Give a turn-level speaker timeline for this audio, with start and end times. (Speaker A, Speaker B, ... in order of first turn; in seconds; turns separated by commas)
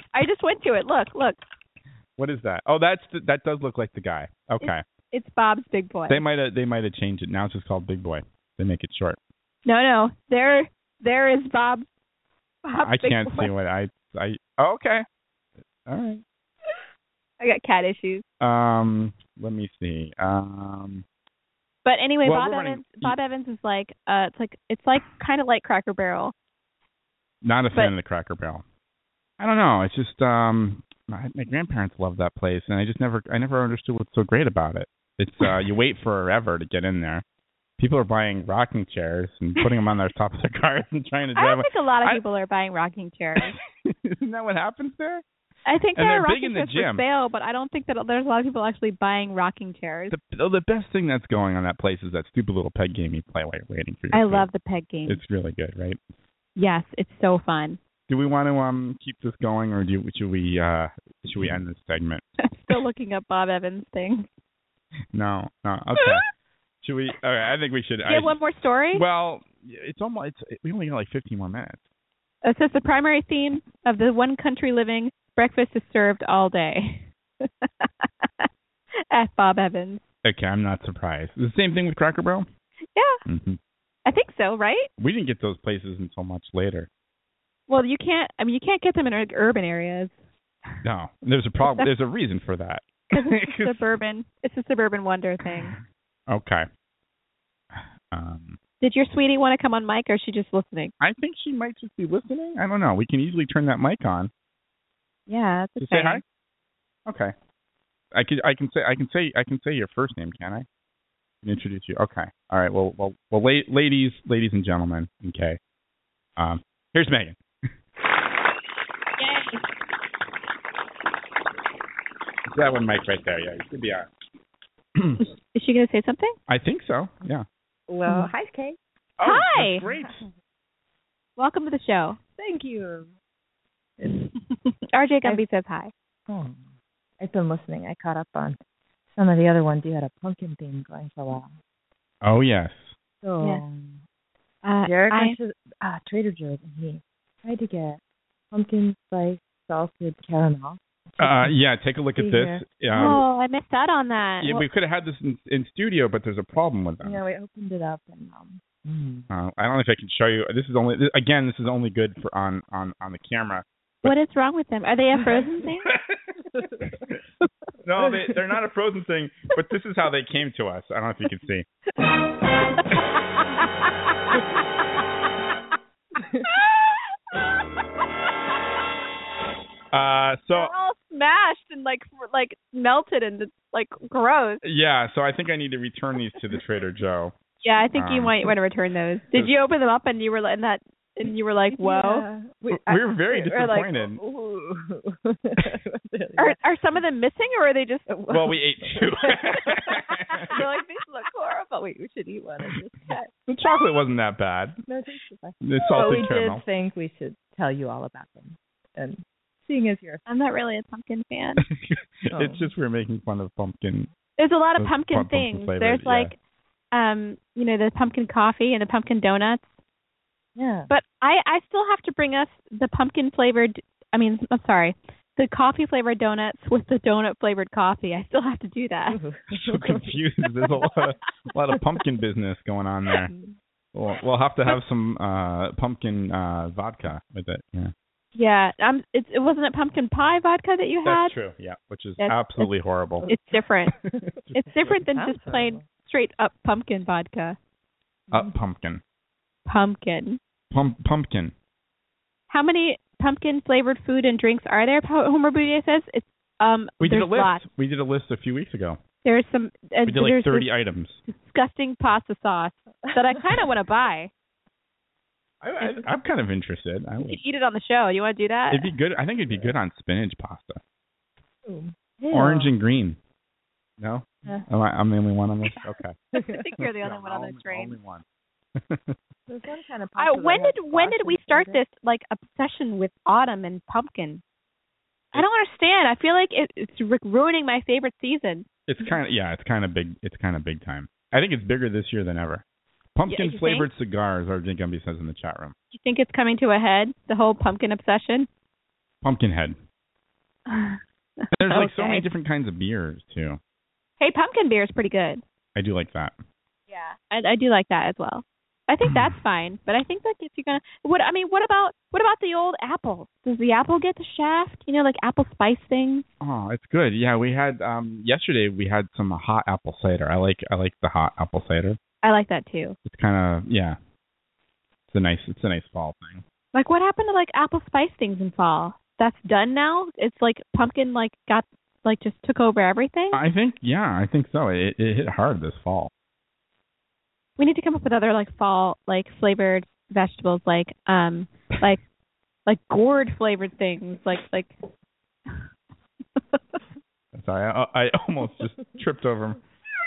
Speaker A: 0.1-1.4, Speaker B: 2.2-4.8, Speaker A: 4.6-6.2, Speaker B: 6.1-9.2, Speaker A: 9.7-11.9, Speaker A: 12.6-13.5, Speaker B: 12.7-15.0, Speaker B: 15.8-16.2, Speaker A: 17.4-18.2, Speaker B: 18.4-21.0, Speaker A: 21.8-26.3, Speaker B: 22.2-23.2, Speaker B: 27.4-28.6, Speaker B: 29.4-37.2, Speaker B: 37.8-42.2, Speaker A: 41.4-43.5, Speaker B: 43.4-45.2, Speaker A: 45.7-50.1, Speaker B: 46.0-47.0, Speaker B: 50.1-54.5, Speaker A: 54.1-55.2, Speaker B: 55.1-56.0, Speaker A: 56.5-57.8, Speaker B: 58.1-62.3, Speaker A: 62.4-64.3, Speaker B: 65.1-66.2, Speaker B: 66.8-68.4, Speaker A: 68.0-69.0, Speaker B: 68.9-71.8, Speaker A: 72.4-78.5, Speaker A: 79.1-80.0, Speaker B: 80.2-82.5, Speaker A: 82.9-83.2, Speaker B: 83.2-83.6, Speaker A: 84.0-84.9, Speaker B: 85.0-86.9, Speaker A: 87.7-90.1, Speaker B: 90.8-93.8, Speaker A: 91.6-91.9, Speaker A: 93.1-95.8, Speaker B: 95.4-95.7, Speaker B: 96.3-96.7, Speaker B: 97.7-98.6, Speaker A: 98.8-100.9, Speaker B: 101.0-104.3, Speaker A: 105.3-106.2, Speaker B: 105.8-106.2, Speaker B: 107.0-107.3, Speaker B: 108.1-110.7, Speaker B: 111.4-115.6, Speaker B: 116.4-117.4, Speaker A: 119.2-119.6, Speaker B: 122.5-124.1, Speaker B: 125.0-125.2, Speaker A: 125.2-126.3, Speaker B: 126.5-127.5, Speaker C: 127.9-128.8, Speaker B: 129.2-130.2, Speaker A: 129.2-129.8, Speaker A: 131.4-132.2, Speaker C: 132.4-133.1, Speaker C: 134.0-134.3, Speaker A: 134.9-135.9, Speaker C: 136.3-136.7, Speaker C: 137.2-138.6, Speaker C: 139.1-141.5, Speaker B: 142.2-142.9, Speaker C: 143.2-144.0, Speaker A: 144.6-145.4, Speaker C: 144.8-148.0, Speaker C: 148.5-151.6, Speaker B: 151.2-153.2, Speaker C: 152.2-153.2, Speaker A: 152.9-154.6, Speaker B: 154.4-157.2, Speaker C: 157.0-159.3, Speaker B: 159.3-164.1, Speaker A: 164.0-165.9, Speaker B: 165.8-166.2, Speaker B: 167.8-171.7, Speaker A: 172.7-173.7, Speaker A: 176.6-177.0, Speaker B: 179.9-180.7, Speaker A: 180.5-184.6, Speaker B: 184.6-187.3, Speaker A: 187.6-192.3, Speaker B: 187.9-188.4, Speaker C: 191.7-196.6, Speaker B: 192.7-194.2, Speaker A: 193.5-193.8, Speaker A: 196.4-198.1, Speaker C: 198.1-203.2, Speaker B: 198.3-200.6, Speaker A: 199.5-199.8, Speaker A: 200.5-201.7, Speaker A: 202.9-203.3, Speaker B: 203.5-204.8, Speaker C: 204.9-210.2, Speaker B: 205.6-206.6, Speaker A: 210.2-211.6, Speaker B: 211.6-214.1, Speaker C: 212.3-212.7, Speaker A: 214.4-216.4, Speaker B: 214.8-216.3, Speaker A: 216.9-219.7, Speaker C: 220.6-220.9, Speaker A: 220.9-229.2, Speaker C: 229.1-230.1, Speaker B: 229.5-233.3, Speaker B: 233.9-237.9, Speaker A: 238.3-241.3, Speaker B: 241.0-243.2, Speaker A: 242.2-242.7, Speaker A: 243.2-244.0, Speaker B: 244.4-245.0, Speaker A: 244.6-247.6, Speaker C: 245.0-245.8, Speaker B: 248.3-249.0, Speaker A: 249.7-250.4, Speaker B: 250.7-251.5, Speaker A: 252.5-257.6, Speaker B: 257.0-259.0, Speaker A: 259.2-260.7, Speaker B: 260.0-261.2, Speaker A: 261.2-264.3, Speaker B: 265.6-267.4, Speaker A: 265.8-266.0, Speaker A: 267.2-268.9, Speaker B: 268.7-270.8, Speaker C: 271.6-272.7, Speaker B: 272.3-273.2, Speaker B: 274.0-276.2, Speaker A: 276.3-277.9, Speaker B: 276.8-278.2, Speaker B: 278.8-279.2, Speaker C: 279.5-281.8, Speaker A: 280.2-284.4, Speaker A: 285.3-288.6, Speaker B: 288.9-292.6, Speaker B: 293.1-295.7, Speaker A: 293.3-293.9, Speaker A: 295.9-298.5, Speaker B: 299.2-299.8, Speaker A: 300.7-302.2, Speaker B: 301.5-303.6, Speaker A: 304.2-305.4, Speaker B: 305.7-306.4, Speaker A: 306.9-316.2, Speaker B: 309.1-309.3, Speaker B: 316.4-322.0, Speaker A: 322.2-323.0, Speaker B: 323.0-324.0, Speaker B: 325.1-326.4, Speaker A: 326.7-333.4, Speaker B: 333.3-336.1, Speaker A: 337.6-342.0, Speaker A: 342.6-344.7, Speaker B: 347.3-349.6